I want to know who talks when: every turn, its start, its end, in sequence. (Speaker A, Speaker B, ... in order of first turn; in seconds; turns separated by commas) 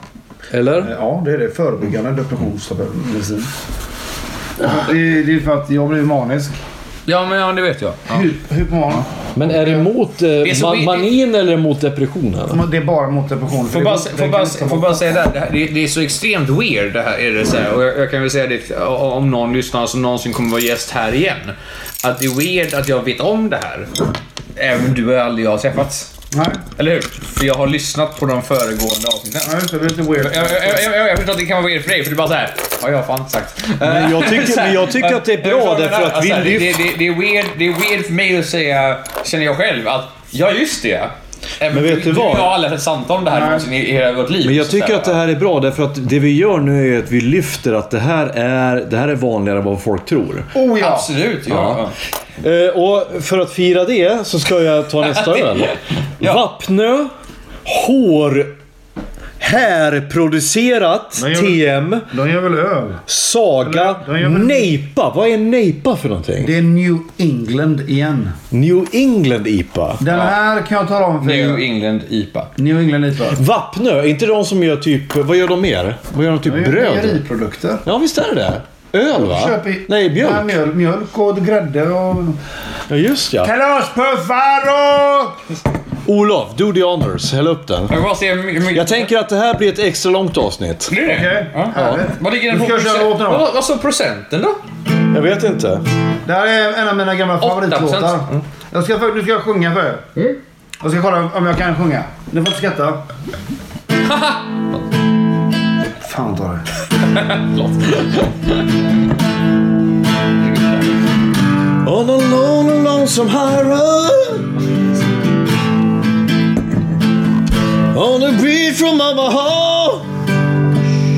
Speaker A: 0.5-0.9, Speaker B: 0.8-3.5, Speaker B: 4.6-6.6, Speaker C: 7.1-8.3, Speaker B: 8.1-9.9, Speaker A: 9.4-12.6, Speaker C: 10.4-11.2, Speaker B: 12.5-15.2, Speaker C: 13.7-23.9, Speaker C: 24.6-26.1, Speaker B: 26.3-26.6, Speaker C: 26.8-29.5, Speaker B: 29.4-30.9, Speaker C: 30.1-45.2, Speaker A: 33.8-36.8, Speaker A: 41.7-42.5, Speaker B: 43.3-43.7, Speaker A: 44.4-50.5, Speaker B: 50.5-51.1, Speaker C: 50.8-51.9, Speaker A: 51.5-51.8, Speaker A: 52.4-57.1, Speaker C: 55.2-56.4, Speaker A: 57.6-58.5, Speaker A: 59.4-62.1, Speaker B: 61.2-63.0, Speaker A: 63.1-66.5, Speaker B: 63.6-64.7, Speaker B: 66.4-68.4, Speaker A: 68.5-70.0, Speaker B: 70.0-71.6, Speaker C: 70.1-70.4, Speaker C: 71.2-72.5, Speaker B: 72.6-73.4, Speaker A: 73.3-77.2, Speaker B: 76.4-77.8, Speaker A: 77.8-80.6, Speaker B: 79.1-82.4, Speaker A: 82.9-83.5, Speaker B: 83.4-85.4, Speaker A: 86.1-88.0, Speaker C: 87.9-89.1, Speaker A: 88.7-90.9, Speaker C: 90.9-94.6, Speaker B: 91.0-93.5, Speaker A: 91.7-92.0, Speaker A: 95.1-95.8, Speaker B: 96.2-100.1, Speaker C: 97.4-98.4, Speaker B: 100.8-103.0, Speaker C: 104.0-104.6, Speaker B: 105.9-106.7, Speaker C: 107.1-108.6, Speaker A: 111.8-114.5, Speaker A: 117.9-120.1